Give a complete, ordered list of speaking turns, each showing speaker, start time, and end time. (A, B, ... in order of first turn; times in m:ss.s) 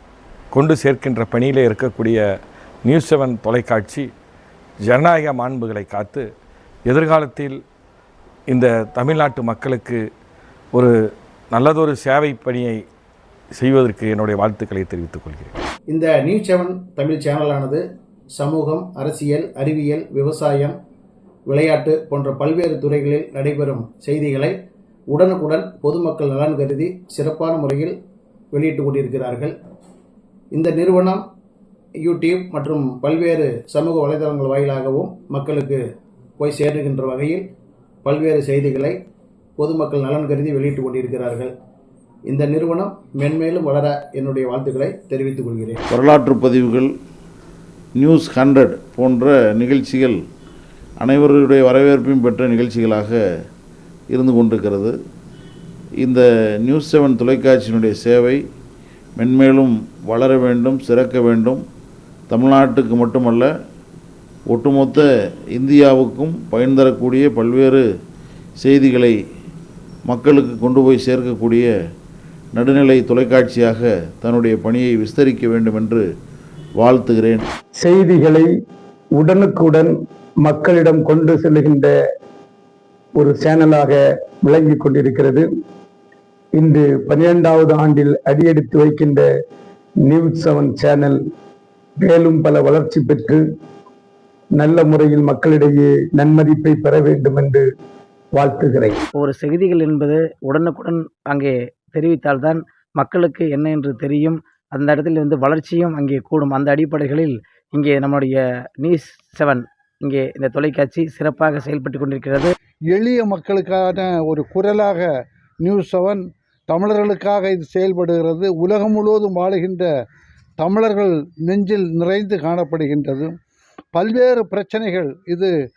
0:00.5-0:02.2 A
0:02.8-0:04.1 A
0:04.8-0:06.3 A
0:06.8-0:07.6 A
0:08.5-0:10.0 A
0:11.5-0:12.8 A
0:13.6-0:15.4 A
0:15.9-0:17.8 B
0:18.4-0:20.8 B
0:21.5-0:24.5 B
0:25.1-0:27.9 B
0:28.5-0:29.5 B
0:30.5-0:31.2 B
0:32.0-0:35.8 B
0:36.4-0:37.4 B
0:38.0-0:39.0 B
0:39.6-0:41.5 B
0:42.3-0:45.8 B
0:45.9-0:46.9 C
0:48.0-0:50.2 C
0:51.0-0:53.2 C
0:54.1-0:54.9 C
0:56.0-0:58.4 C
0:59.2-1:01.6 C
1:02.3-1:03.5 C
1:04.5-1:07.8 C
1:08.6-1:09.1 C
1:10.1-1:11.7 C
1:12.5-1:16.0 C
1:16.8-1:17.5 C
1:17.8-1:18.5 D
1:19.2-1:21.9 D
1:23.2-1:25.5 D
1:26.6-1:29.3 D
1:30.0-1:31.2 D
1:32.0-1:33.4 D
1:34.6-1:37.6 D
1:38.4-1:39.0 D
1:39.1-1:52.5 E
1:52.9-1:55.1 F
1:55.6-1:59.9 F
2:00.6-2:03.3 F
2:03.9-2:05.5 F